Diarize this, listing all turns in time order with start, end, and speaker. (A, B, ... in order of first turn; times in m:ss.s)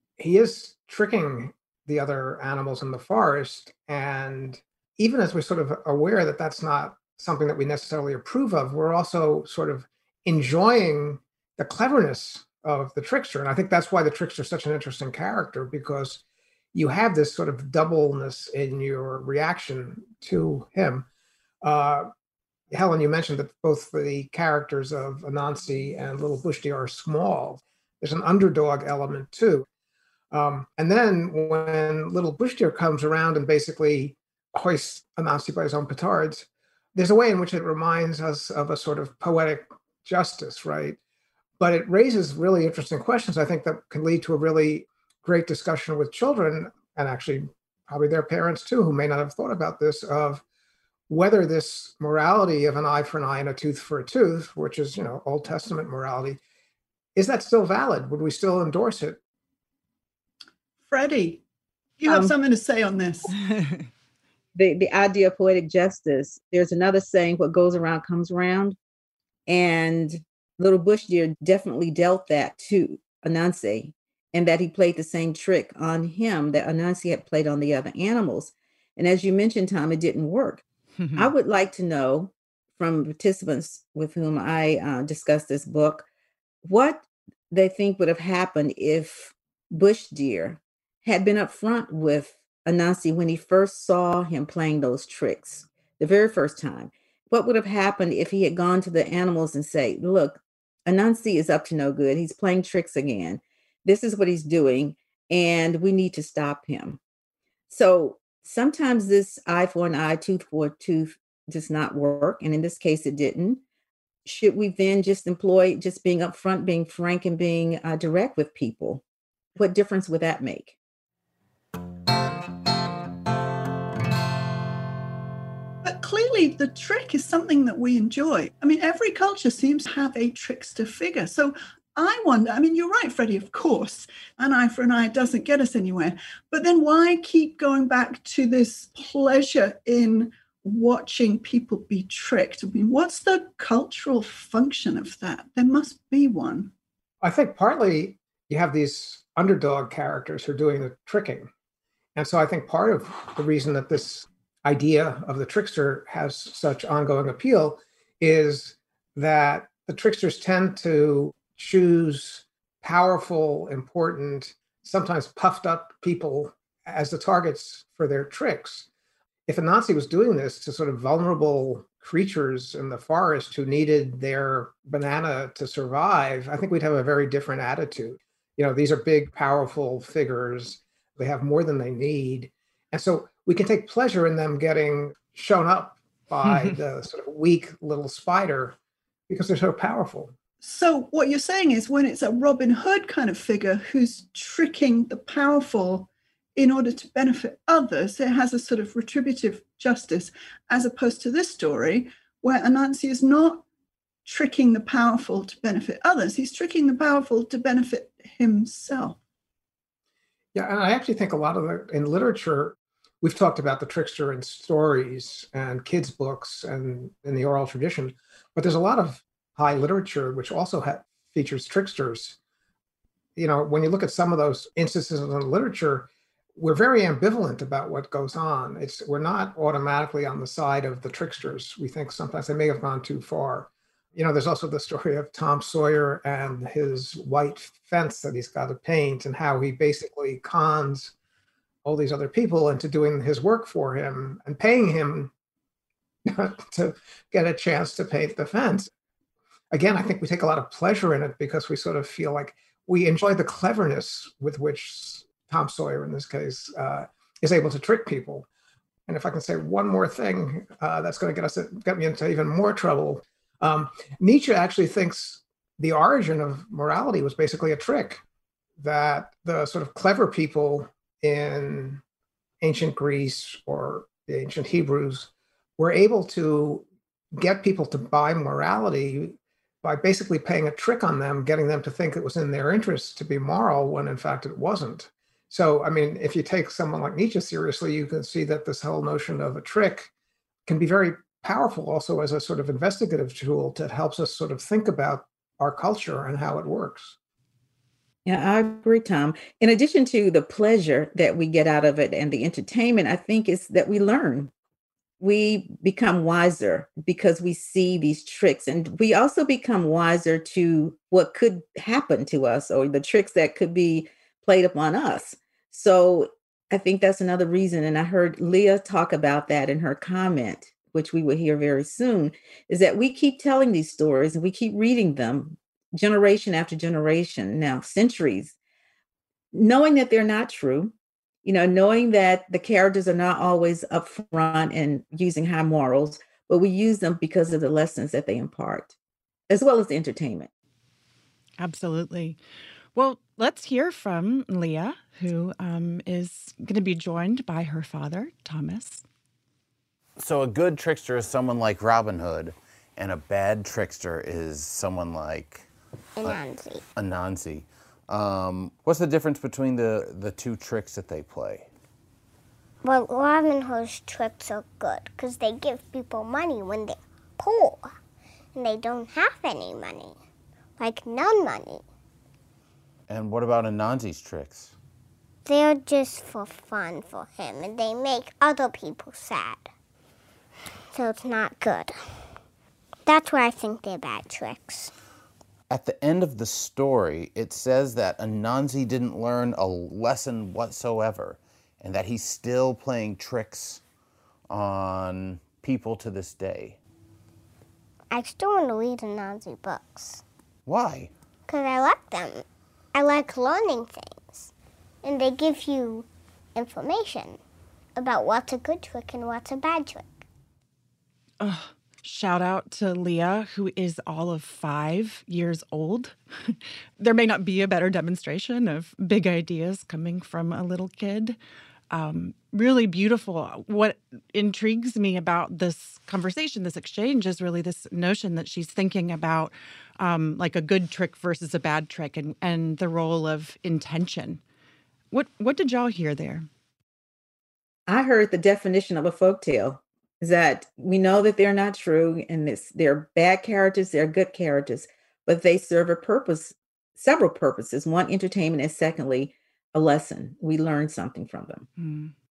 0:00.2-0:16.2 A
0:16.7-0:21.1 A
0:21.6-0:22.1 A
0:22.7-0:29.7 A
0:30.3-0:41.0 A
0:41.6-0:50.4 A
0:51.1-0:56.4 A
0:57.2-0:59.2 A
1:00.8-1:01.4 B
1:02.0-1:03.4 B
1:02.1-1:02.4 C
1:03.5-1:03.8 D
1:04.6-1:08.8 C
1:09.5-1:20.6 C
1:21.0-1:21.3 D
1:21.2-1:26.1 C
1:26.6-1:47.0 C
1:47.7-1:53.6 C
1:54.3-1:59.0 C
1:59.6-2:00.8 C
2:05.8-2:26.7 B
2:27.2-2:31.5 A
2:32.2-2:48.9 A
2:49.5-3:08.8 A
3:06.5-3:06.7 D
3:09.3-3:10.4 A
3:10.6-3:23.6 B
3:24.3-3:29.2 B
3:30.6-3:42.4 A
3:43.4-4:01.2 A
4:01.8-4:05.3 A
4:06.3-4:08.9 A
4:09.7-4:18.5 A
4:19.1-4:28.2 A
4:28.8-4:32.0 A
4:32.6-4:50.1 A
4:50.7-4:57.2 A
4:58.2-5:04.5 C
5:05.2-5:28.5 C
5:29.5-5:39.0 C
5:39.5-5:40.5 C
5:41.6-5:42.4 D
5:42.9-5:49.0 D
5:50.2-5:55.7 E
5:56.2-5:56.8 F
5:57.0-6:01.7 E
6:02.8-6:07.9 F
6:08.6-6:10.2 F
6:10.8-6:11.8 F
6:13.1-6:14.8 E
6:15.4-6:19.7 F
6:20.9-6:22.0 F
6:23.1-6:24.9 F
6:25.7-6:33.8 E
6:34.5-6:36.8 E
6:38.1-6:40.2 F
6:40.7-6:41.1 E
6:41.5-6:44.5 F
6:45.0-6:47.4 F
6:48.0-6:50.1 F
6:51.4-7:01.4 D
7:01.9-7:14.4 D
7:15.1-7:16.5 D
7:17.9-7:31.7 C
7:31.8-7:32.1 D